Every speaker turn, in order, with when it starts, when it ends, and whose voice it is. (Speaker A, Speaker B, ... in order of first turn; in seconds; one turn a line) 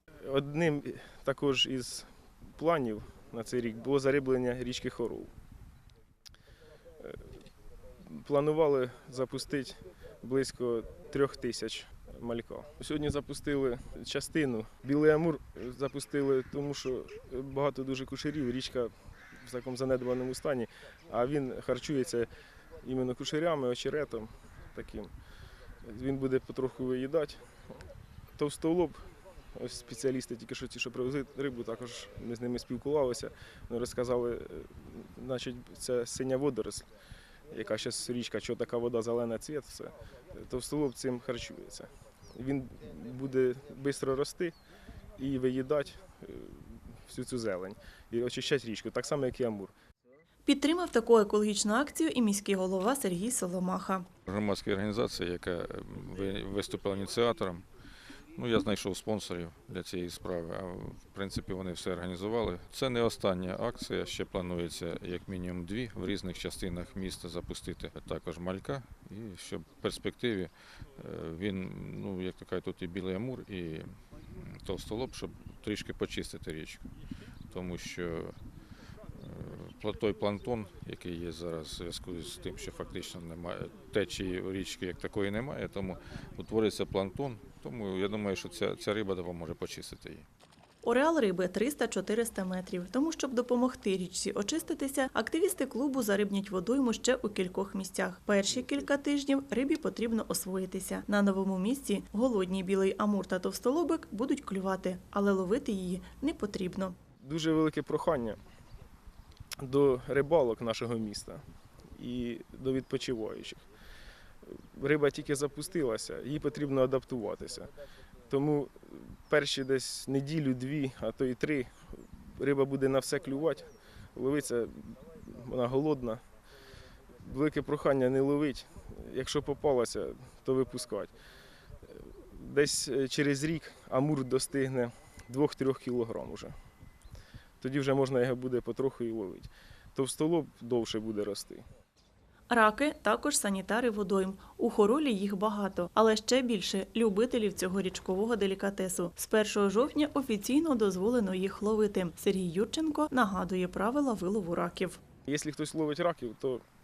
Speaker A: 0.2-5.3
Speaker A: 8.0-22.3
Speaker A: 22.8-25.1
Speaker A: 25.8-27.5
Speaker A: 28.4-36.9
Speaker A: 37.5-44.5
Speaker A: 45.2-49.7
Speaker B: 50.5-54.1
Speaker C: 54.3-57.7
Speaker C: 58.4-76.8
Speaker C: 77.5-78.3
Speaker C: 79.1-90.2
Speaker B: 90.8-107.0
Speaker A: 107.2-108.4
Speaker A: 109.6-111.4
Speaker A: 112.0-113.6
Speaker A: 114.7-117.7
Speaker A: 118.3-126.2
Speaker A: 127.2-131.1
Speaker A: 131.9-136.5
Speaker A: 137.6-141.7
Speaker B: 142.5-155.0
Speaker A: 155.3-156.6